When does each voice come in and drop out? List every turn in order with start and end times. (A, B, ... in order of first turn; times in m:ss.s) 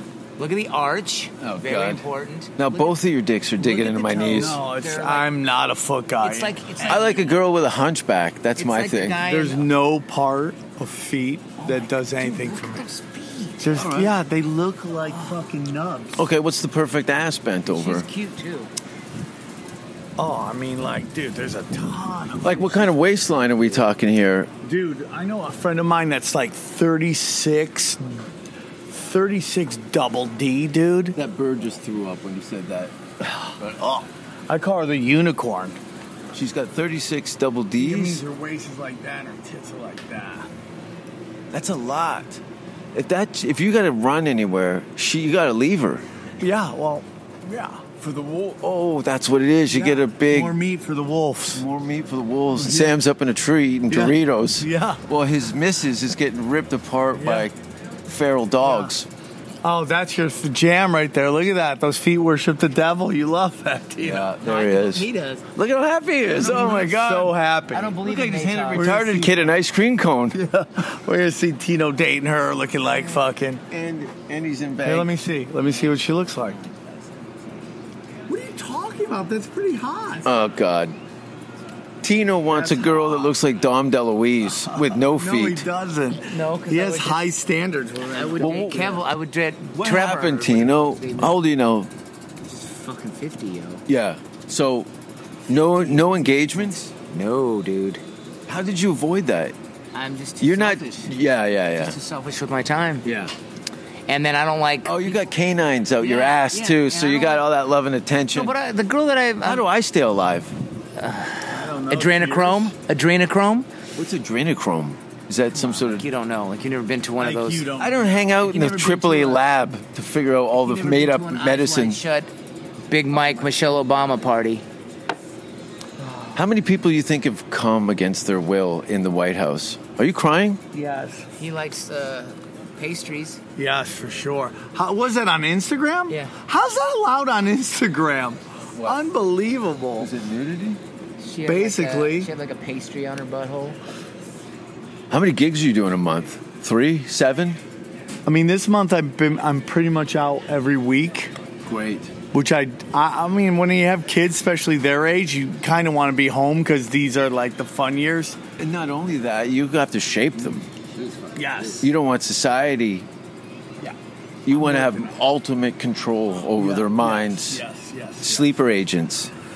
0:00.4-0:03.0 A
0:01.4-0:02.0 B
0:02.6-0:04.6 B
0:03.6-0:05.3 A
0:04.4-0:06.6 C
0:06.2-0:07.4 A
0:06.9-0:09.2 B
0:08.6-0:09.7 A
0:09.2-0:12.9 C
0:11.6-0:13.8 A
0:13.6-0:16.2 C
0:13.8-0:14.2 B
0:15.1-0:15.4 A
0:16.2-0:18.1 B
0:17.7-0:18.7 A
0:20.2-0:22.9 C
0:22.4-0:24.5 B
0:24.6-0:28.3 C
0:28.9-0:31.2 C
0:31.2-0:34.0 B
0:33.2-0:35.8 C
0:36.3-0:38.2 B
0:37.8-0:40.5 C
0:41.5-0:42.4 B
0:42.9-0:46.0 B
0:46.4-0:47.8 C
0:48.0-0:50.6 B
0:49.7-0:51.6 C
0:51.5-0:59.1 B
0:52.6-0:53.0 C
0:53.9-0:55.0 C
0:57.2-0:57.5 C
0:58.6-0:58.9 C
0:59.6-1:04.3 C
1:04.0-1:07.4 B
1:04.4-1:05.4 A
1:06.4-1:08.0 C
1:07.7-1:08.9 A
1:08.0-1:10.4 B
1:08.7-1:09.5 C
1:10.3-1:13.6 C
1:13.7-1:15.1 B
1:14.8-1:16.6 C
1:15.6-1:17.0 A
1:18.3-1:20.3 C
1:20.2-1:21.0 B
1:22.0-1:25.7 B
1:22.5-1:23.3 C
1:24.6-1:28.9 C
1:26.2-1:27.2 A
1:28.1-1:31.4 A
1:28.4-1:29.0 B
1:29.7-1:31.9 B
1:32.5-1:33.8 A
1:33.9-1:34.9 B
1:35.5-1:36.9 B
1:37.1-1:38.0 A
1:38.5-1:39.6 B
1:39.9-1:41.1 A
1:40.4-1:42.0 B
1:41.7-1:43.0 A
1:43.0-1:43.4 B
1:44.1-1:45.3 A
1:44.8-1:48.6 B
1:46.0-1:47.4 A
1:48.3-1:49.6 A
1:49.4-1:50.6 B
1:51.0-1:53.7 A
1:51.5-1:52.7 C
1:54.0-1:56.1 B
1:55.5-1:57.7 A
1:57.2-1:59.4 C
1:57.8-2:02.0 B
2:00.6-2:02.3 A
2:02.9-2:04.6 A
2:06.0-2:06.4 C
2:06.3-2:10.6 B
2:10.7-2:11.3 C
2:11.4-2:13.4 A
2:13.6-2:20.1 C
2:18.8-2:19.0 B
2:20.0-2:20.8 B
2:21.2-2:23.8 A
2:21.5-2:22.3 C
2:25.1-2:27.6 B
2:28.3-2:31.3 C
2:31.6-2:32.2 B
2:32.3-2:38.4 C
2:38.6-2:43.1 B
2:41.3-2:41.9 C
2:44.5-2:47.6 B
2:44.5-2:45.1 C
2:46.6-2:48.5 C
2:48.2-2:49.3 B